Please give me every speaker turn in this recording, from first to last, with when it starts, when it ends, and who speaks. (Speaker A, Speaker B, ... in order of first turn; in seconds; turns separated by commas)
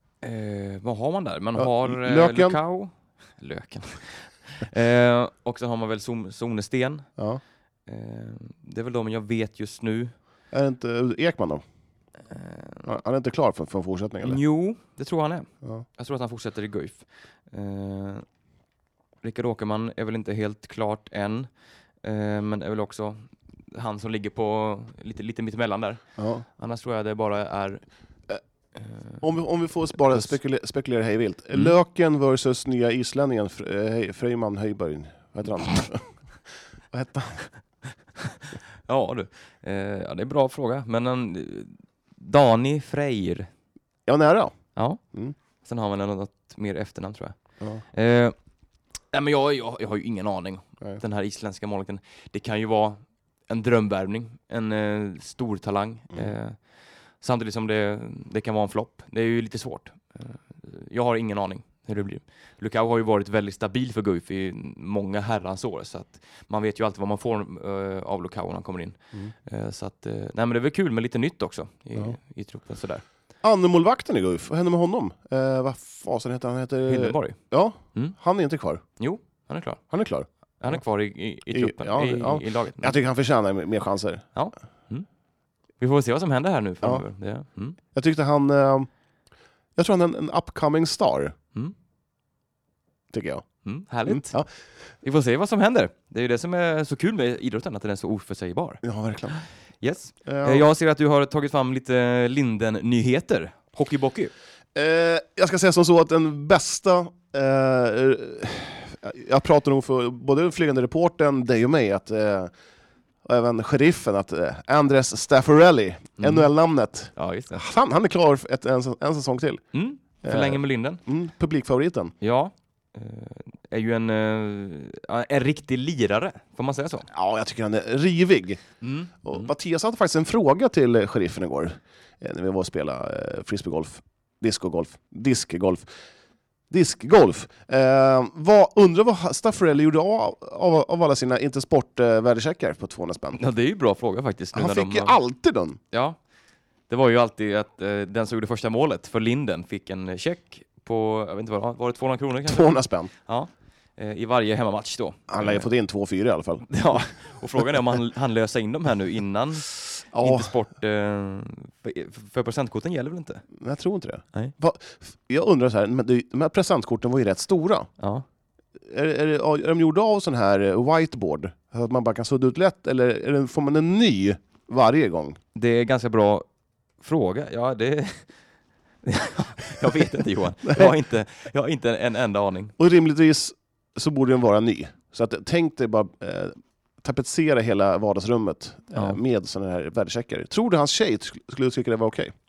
Speaker A: 0.2-7.1, Speaker B: 1.6-2.6, Speaker A: 7.8-10.1, Speaker B: 10.5-11.6, Speaker A: 12.3-12.9, Speaker B: 12.8-14.4, Speaker A: 14.2-18.2, Speaker A: 19.2-21.5, Speaker A: 22.0-26.0, Speaker B: 26.2-26.4, Speaker A: 26.6-27.8, Speaker A: 28.8-29.2, Speaker B: 29.2-36.1, Speaker B: 36.9-37.4, Speaker A: 38.9-43.5, Speaker B: 44.1-45.3, Speaker A: 45.6-47.4, Speaker A: 47.9-48.3, Speaker A: 49.1-56.6, Speaker A: 57.2-73.0, Speaker B: 73.4-78.8, Speaker A: 76.9-77.4, Speaker A: 79.0-79.8, Speaker B: 79.9-80.8, Speaker A: 80.6-82.9, Speaker B: 81.5-84.2, Speaker A: 84.3-85.0, Speaker A: 85.8-87.8, Speaker B: 87.9-88.9, Speaker B: 89.8-91.3, Speaker B: 93.1-94.5, Speaker A: 93.6-94.4, Speaker A: 95.0-104.3, Speaker B: 98.8-99.4, Speaker B: 100.2-100.6, Speaker B: 104.7-112.5, Speaker B: 113.2-119.6, Speaker A: 116.2-116.5, Speaker A: 117.2-117.6, Speaker A: 119.7-121.0, Speaker B: 120.2-122.1, Speaker A: 122.2-127.1, Speaker B: 127.1-128.6, Speaker A: 128.8-129.5, Speaker B: 129.2-135.8, Speaker B: 136.7-143.4, Speaker A: 143.3-145.2, Speaker B: 144.5-145.8, Speaker A: 145.9-146.2, Speaker A: 146.9-155.7, Speaker B: 152.5-153.1, Speaker B: 155.3-157.0, Speaker A: 156.7-163.4, Speaker B: 160.1-160.5, Speaker B: 163.6-167.9, Speaker A: 168.0-168.2, Speaker B: 168.9-175.4, Speaker A: 175.5-176.4, Speaker A: 177.0-178.2, Speaker A: 179.0-182.7, Speaker B: 182.8-192.3, Speaker A: 188.9-189.2